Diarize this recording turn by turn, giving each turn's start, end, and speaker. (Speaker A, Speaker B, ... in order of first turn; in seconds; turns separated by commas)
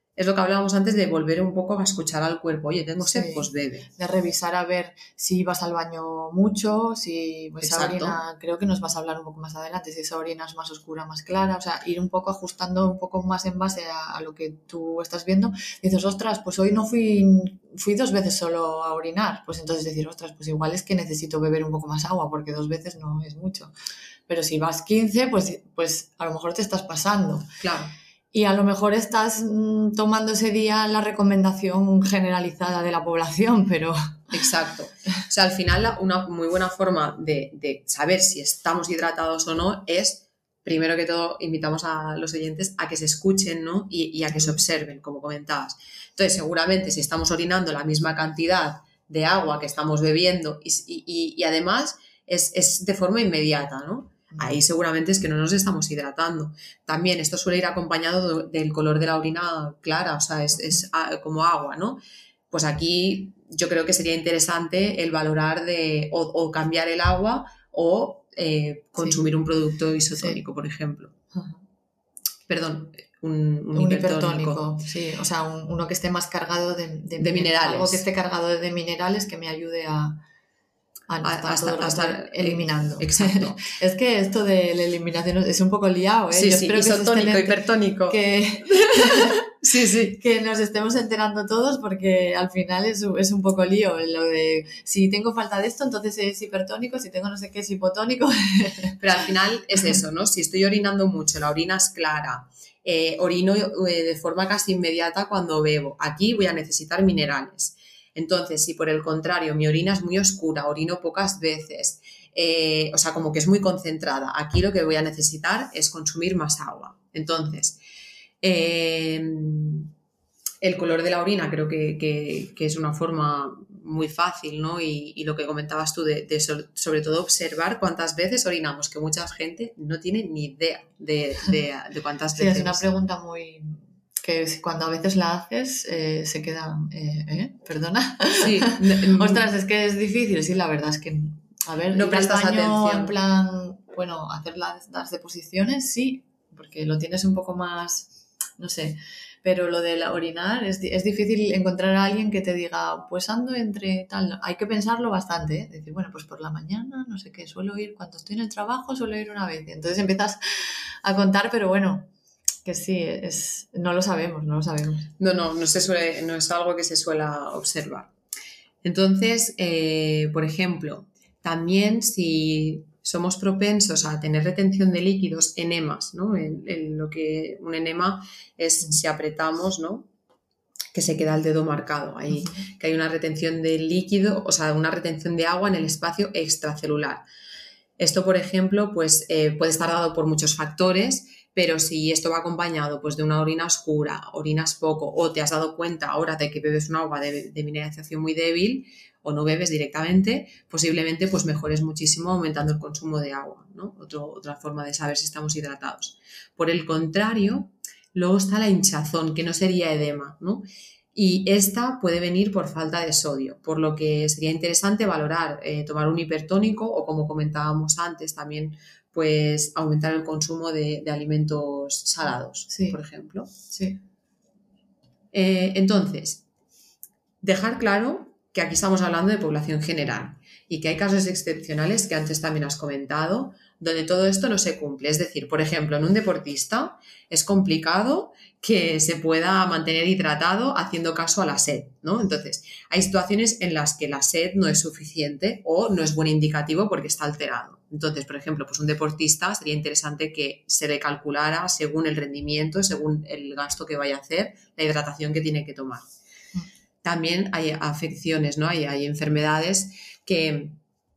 Speaker A: 0.2-3.9, Speaker B: 3.0-23.7, Speaker A: 7.6-8.2, Speaker B: 24.3-27.5, Speaker A: 27.6-27.9, Speaker B: 28.3-34.4, Speaker A: 34.3-62.0, Speaker B: 54.3-54.6, Speaker A: 62.5-71.1, Speaker B: 70.2-70.4, Speaker B: 71.3-71.6, Speaker A: 72.5-74.6, Speaker B: 73.7-80.2, Speaker A: 77.2-78.0, Speaker B: 81.1-89.4, Speaker A: 81.2-83.6, Speaker A: 86.3-90.2, Speaker B: 90.1-99.0, Speaker A: 99.0-117.8, Speaker A: 118.4-119.9, Speaker A: 120.6-132.8, Speaker B: 132.3-162.1, Speaker A: 138.4-139.4, Speaker A: 141.9-143.1, Speaker B: 162.7-165.1, Speaker A: 165.2-168.1, Speaker A: 168.8-180.1, Speaker A: 180.9-187.2, Speaker B: 182.3-182.6, Speaker A: 188.0-223.5, Speaker B: 222.7-223.0, Speaker B: 223.7-224.0, Speaker A: 225.3-226.4, Speaker A: 227.4-256.1, Speaker A: 257.0-260.8